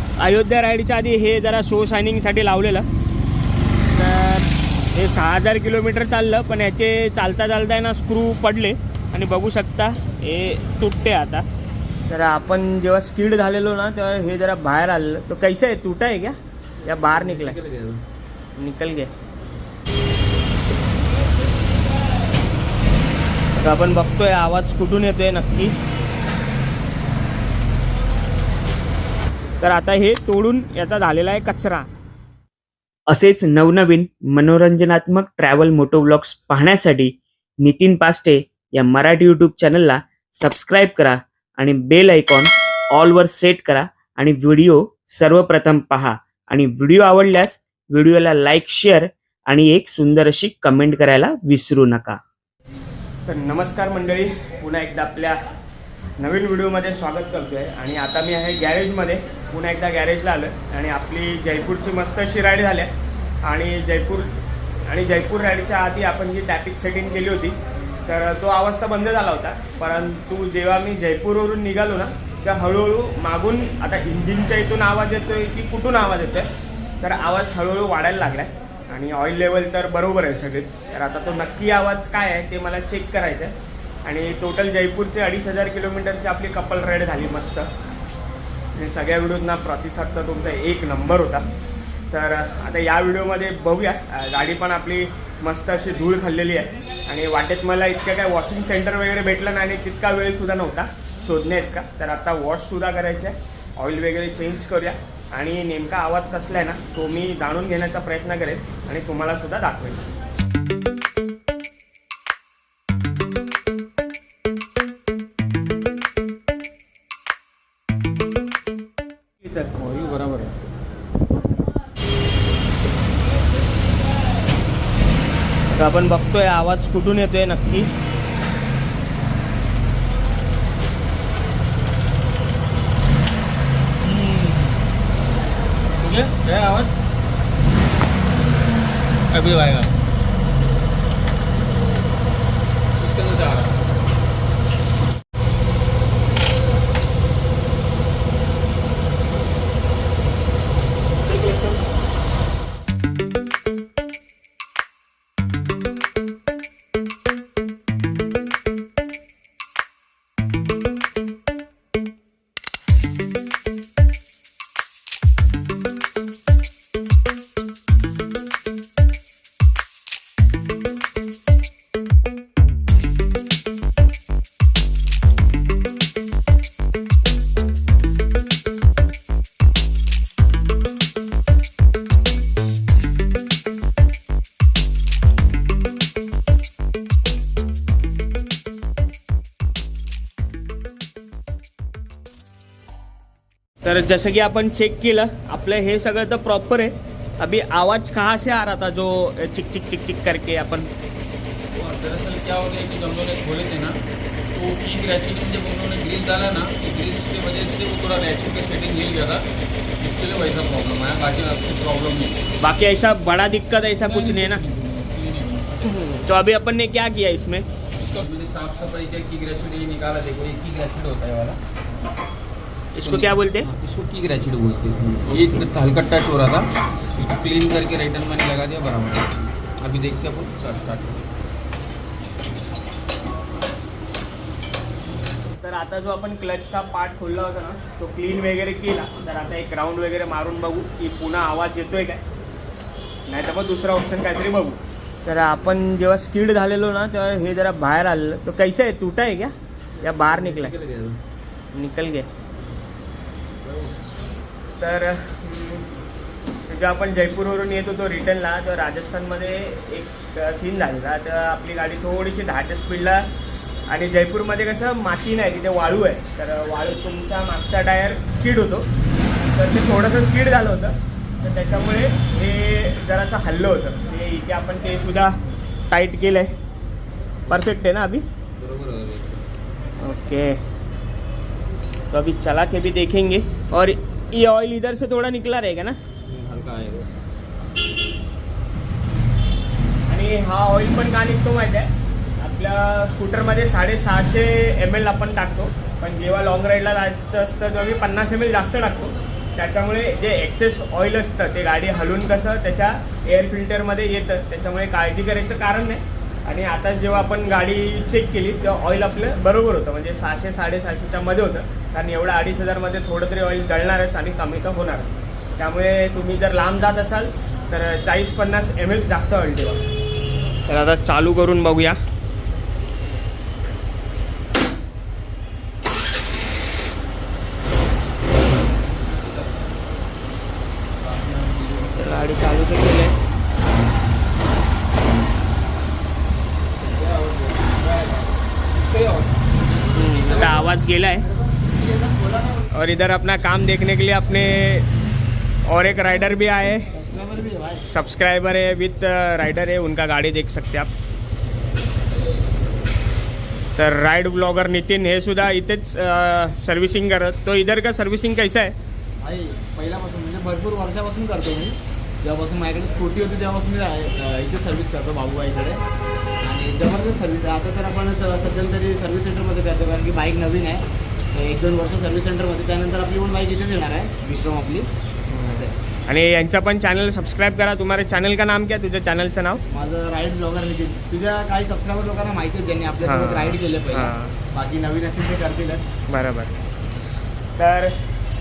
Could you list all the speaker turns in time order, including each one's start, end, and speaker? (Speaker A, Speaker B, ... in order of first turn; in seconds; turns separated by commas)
Speaker A: 0.2-2.9, Speaker A: 3.9-11.4, Speaker A: 12.1-17.6, Speaker B: 17.1-18.0, Speaker A: 18.6-19.1, Speaker A: 23.6-25.7, Speaker A: 29.6-31.9, Speaker A: 33.1-52.2, Speaker A: 53.3-55.4, Speaker A: 56.2-62.9, Speaker A: 63.4-64.3, Speaker A: 64.9-76.5, Speaker A: 77.0-83.5, Speaker A: 84.0-87.7, Speaker A: 88.8-91.4, Speaker A: 92.1-110.0, Speaker A: 119.5-119.7, Speaker C: 119.8-120.5, Speaker A: 125.7-127.9, Speaker C: 134.0-134.8, Speaker C: 136.0-136.9, Speaker C: 139.3-139.9, Speaker C: 143.0-143.8, Speaker A: 151.3-151.8, Speaker A: 193.8-200.9, Speaker C: 201.7-204.0, Speaker C: 204.5-209.5, Speaker C: 210.0-212.4, Speaker A: 212.6-214.6, Speaker C: 214.0-215.8, Speaker A: 215.8-217.7, Speaker C: 218.0-221.6, Speaker A: 223.0-223.7, Speaker C: 223.0-231.2, Speaker A: 235.5-242.2, Speaker A: 243.3-250.7, Speaker B: 250.1-251.1, Speaker A: 251.7-252.3, Speaker A: 254.8-255.9, Speaker A: 256.7-263.3, Speaker A: 263.9-268.9, Speaker A: 269.4-275.4, Speaker A: 275.9-276.5, Speaker A: 277.5-278.2, Speaker C: 278.6-279.4, Speaker A: 280.0-280.6, Speaker A: 282.1-286.0, Speaker C: 286.3-287.1, Speaker A: 290.1-319.8, Speaker A: 320.7-322.0, Speaker C: 328.6-329.7, Speaker C: 331.0-332.3, Speaker A: 332.0-333.1, Speaker C: 336.9-338.2, Speaker C: 338.8-340.6, Speaker A: 339.9-341.3, Speaker B: 341.5-342.7, Speaker A: 342.7-344.9, Speaker A: 345.7-346.9, Speaker B: 346.9-347.8, Speaker A: 347.9-350.9, Speaker A: 353.8-358.8, Speaker B: 359.2-365.8, Speaker B: 366.4-374.9, Speaker A: 375.3-379.6, Speaker B: 375.5-375.8, Speaker B: 379.7-385.9, Speaker A: 383.0-384.4, Speaker A: 386.1-386.5, Speaker A: 387.6-388.0